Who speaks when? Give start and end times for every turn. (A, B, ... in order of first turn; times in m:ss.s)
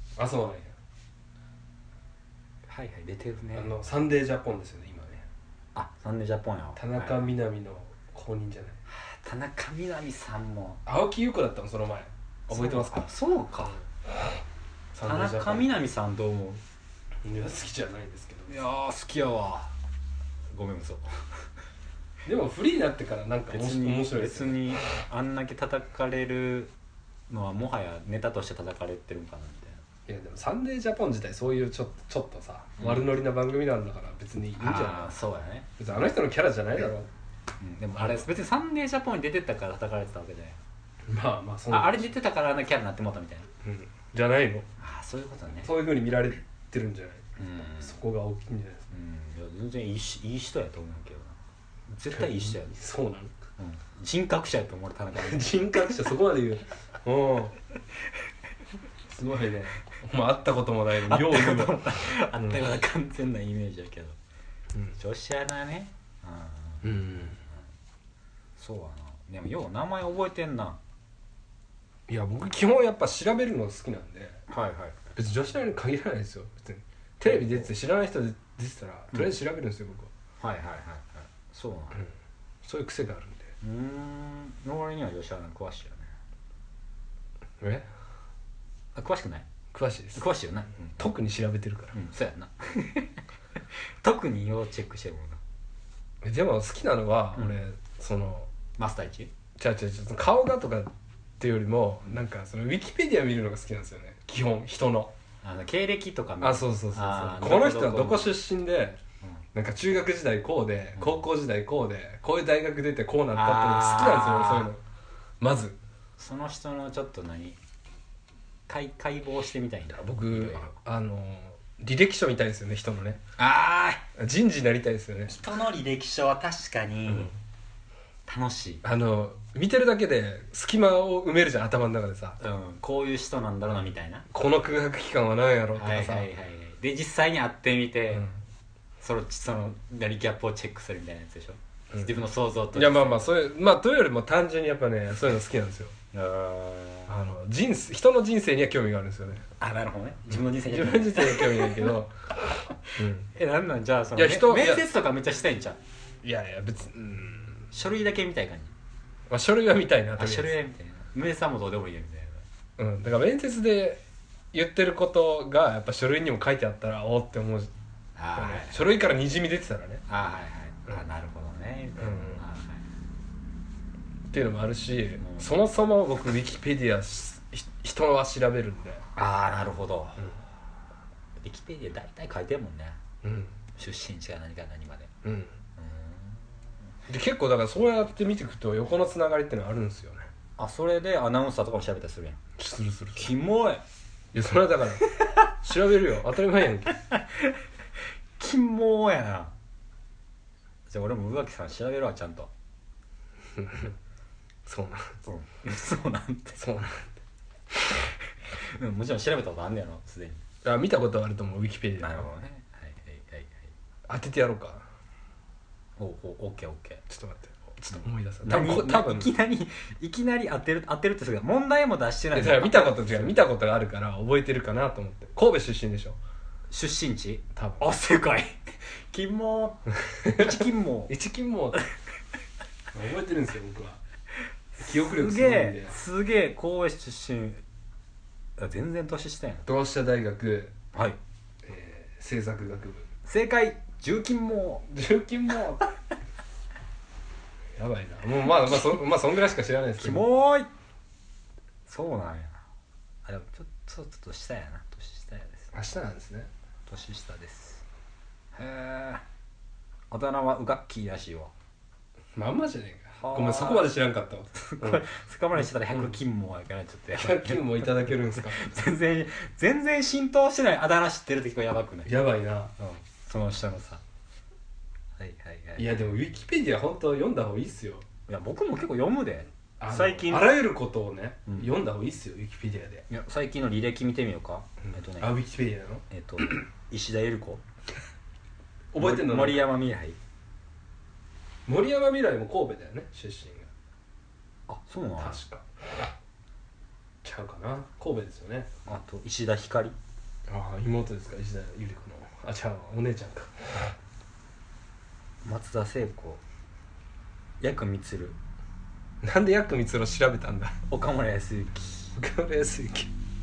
0:00.2-0:00.7 A
0:02.7-0:03.7 B
0:03.6-0:05.3 A
0:05.8-0:07.3 B
0:06.8-0:08.8 A
0:08.9-0:10.8 B
0:10.8-0:13.1 A
0:12.5-0:13.8 B
0:14.9-0:15.7 A
0:15.0-0:16.6 B
0:17.2-0:18.5 A
0:18.5-0:19.7 B
0:20.5-0:21.2 B
0:22.2-0:24.6 A
0:23.5-0:26.7 B
0:27.3-0:29.8 B
0:30.1-0:35.2 A
0:32.8-0:33.1 B
0:34.6-0:35.7 B
0:35.8-0:37.1 A
0:37.6-0:40.6 B
0:41.1-0:42.1 A
0:41.7-0:43.5 B
0:43.6-0:44.7 A
0:44.8-0:45.7 B
0:45.6-0:47.2 A
0:47.4-0:48.0 B
0:47.8-0:48.9 A
0:48.9-0:52.8 B
0:52.1-0:53.3 A
0:53.6-0:56.0 B
0:55.2-0:57.6 A
0:59.1-1:01.8 A
1:01.0-1:04.2 B
1:02.4-1:02.7 A
1:04.9-1:07.6 B
1:06.8-1:07.4 A
1:08.6-1:10.8 B
1:12.1-1:14.4 A
1:14.5-1:15.1 B
1:15.2-1:20.1 A
1:17.2-1:17.7 B
1:20.4-1:22.1 B
1:22.6-1:23.5 A
1:23.6-1:26.1 B
1:27.6-1:27.9 A
1:29.0-1:29.5 B
1:29.7-1:30.2 A
1:30.1-1:31.1 B
1:31.0-1:32.0 A
1:31.9-1:33.2 B
1:33.8-1:35.4 B
1:36.2-1:38.5 A
1:38.8-1:39.3 B
1:39.6-1:45.1 A
1:45.4-1:48.4 B
1:46.4-1:49.0 A
1:49.5-1:54.8 A
1:51.0-1:51.2 B
1:53.3-1:54.7 B
1:55.4-1:55.8 A
1:56.2-1:57.6 B
1:58.7-2:00.7 B
1:59.9-2:03.2 A
2:03.4-2:04.1 B
2:04.2-2:05.4 A
2:05.3-2:07.3 B
2:08.3-2:08.8 B
2:08.8-2:12.4 A
2:12.4-2:14.3 B
2:14.3-2:16.3 A
2:15.8-2:18.3 B
2:19.0-2:23.3 B
2:22.8-2:26.0 A
2:26.1-2:27.2 B
2:27.1-2:29.4 A
2:29.6-2:32.0 B
2:30.7-2:32.2 A
2:33.0-2:33.3 A
2:33.3-2:35.8 B
2:34.2-2:34.8 A
2:36.2-2:37.7 A
2:37.7-2:38.7 B
2:39.3-2:40.6 A
2:40.2-2:42.4 B
2:42.8-2:44.0 A
2:44.5-2:47.7 A
2:48.2-2:48.8 B
2:48.4-2:50.0 A
2:50.1-2:52.8 B
2:52.0-2:52.4 A
2:54.3-2:59.0 A
2:55.2-2:55.5 B
2:59.2-3:00.4 B
3:01.4-3:03.0 B
3:03.2-3:03.6 A
3:03.8-3:05.1 B
3:05.2-3:05.5 A
3:05.8-3:06.4 B
3:07.1-3:10.3 A
3:10.6-3:12.4 B
3:12.6-3:13.3 A
3:13.2-3:13.8 B
3:14.3-3:17.0 A
3:16.9-3:17.6 B
3:18.4-3:19.5 B
3:20.9-3:22.5 B
3:23.6-3:24.0 A
3:24.7-3:25.2 A
3:25.2-3:26.6 B
3:26.6-3:27.1 A
3:28.0-3:30.4 B
3:30.6-3:32.3 A
3:32.0-3:33.7 B
3:34.1-3:34.9 A
3:36.0-3:37.0 B
3:37.1-3:39.3 A
3:38.0-3:43.4 B
3:42.4-3:46.2 A
3:46.7-3:48.6 B
3:47.6-3:47.9 A
3:49.1-3:51.1 B
3:50.2-3:51.8 A
3:52.9-3:54.0 A
3:54.7-3:57.6 B
3:54.8-3:55.9 A
3:58.6-3:59.7 B
3:59.7-4:00.8 A
4:00.9-4:01.2 B
4:01.6-4:03.1 A
4:03.2-4:04.8 B
4:04.8-4:05.9 A
4:07.8-4:10.2 A
4:10.0-4:10.7 B
4:11.9-4:12.6 B
4:13.2-4:15.7 B
4:15.7-4:16.5 A
4:16.9-4:17.8 B
4:18.5-4:19.2 B
4:20.1-4:21.5 B
4:22.4-4:25.0 A
4:23.2-4:23.9 B
4:24.6-4:32.2 B
4:27.2-4:28.6 A
4:32.1-4:32.7 A
4:32.8-4:34.0 B
4:35.2-4:36.1 B
4:35.8-4:38.1 A
4:38.3-4:40.6 B
4:39.8-4:43.1 A
4:41.5-4:41.7 B
4:43.1-4:45.4 B
4:45.2-4:46.5 A
4:46.1-4:47.6 B
4:48.9-4:49.7 A
4:49.0-4:50.2 B
4:51.7-4:53.7 A
4:54.7-4:55.4 B
4:55.2-4:55.7 A
4:57.2-4:58.7 A
4:58.9-5:00.0 B
5:00.5-5:03.9 A
5:05.4-5:06.4 B
5:07.6-5:08.4 B
5:09.2-5:10.8 A
5:10.9-5:12.1 B
5:12.2-5:13.1 A